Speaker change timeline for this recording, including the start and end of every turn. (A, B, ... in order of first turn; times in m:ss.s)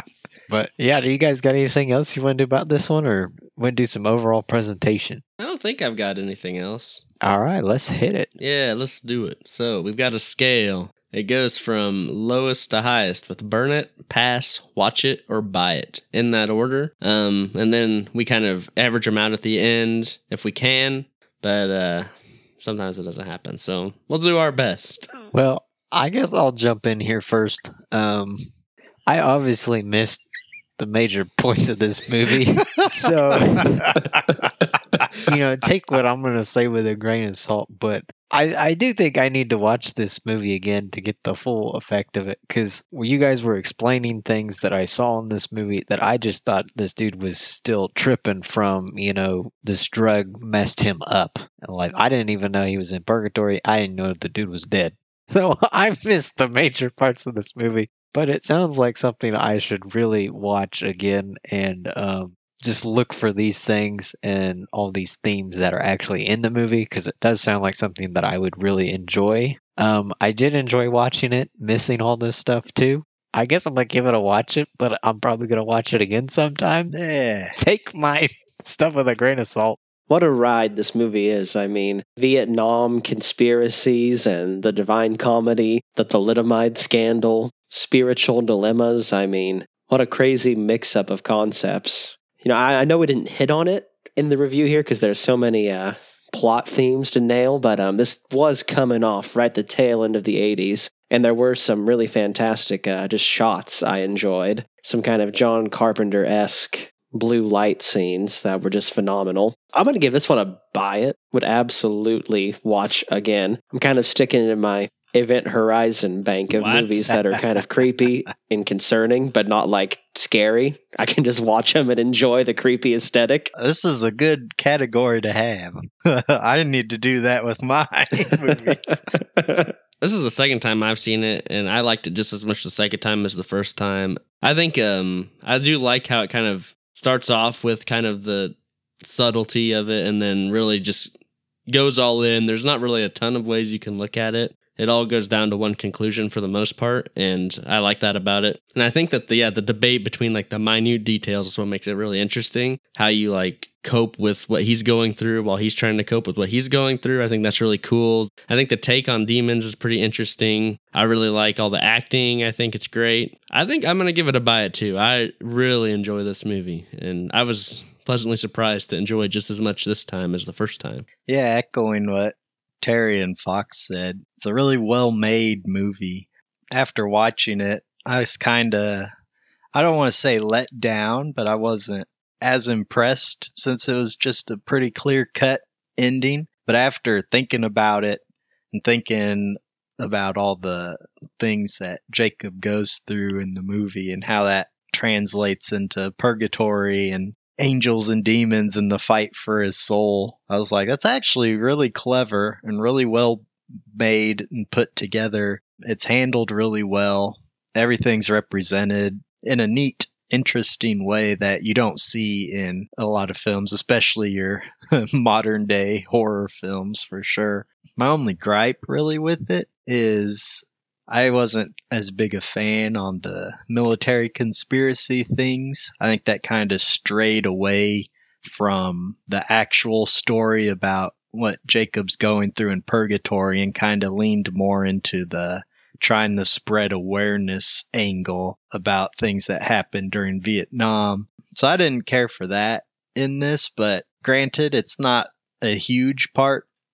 0:00.5-0:05.2 A
0:05.4-0:07.0 B
0:07.2-0:08.3 A
0:08.4-0:22.1 B
0:22.6-0:25.1 B
0:25.3-0:28.5 A
0:29.1-0:30.2 A
0:30.8-0:34.0 A
0:33.3-0:34.1 C
0:35.3-1:17.0 A
1:16.9-1:17.6 C
1:17.6-1:19.8 A
1:20.1-2:03.5 D
1:56.5-1:57.1 B
2:03.6-2:09.0 C
2:09.2-2:09.7 D
2:10.0-2:21.1 B
2:21.7-2:51.1 B
2:51.3-2:59.1 C
2:59.7-4:06.7 C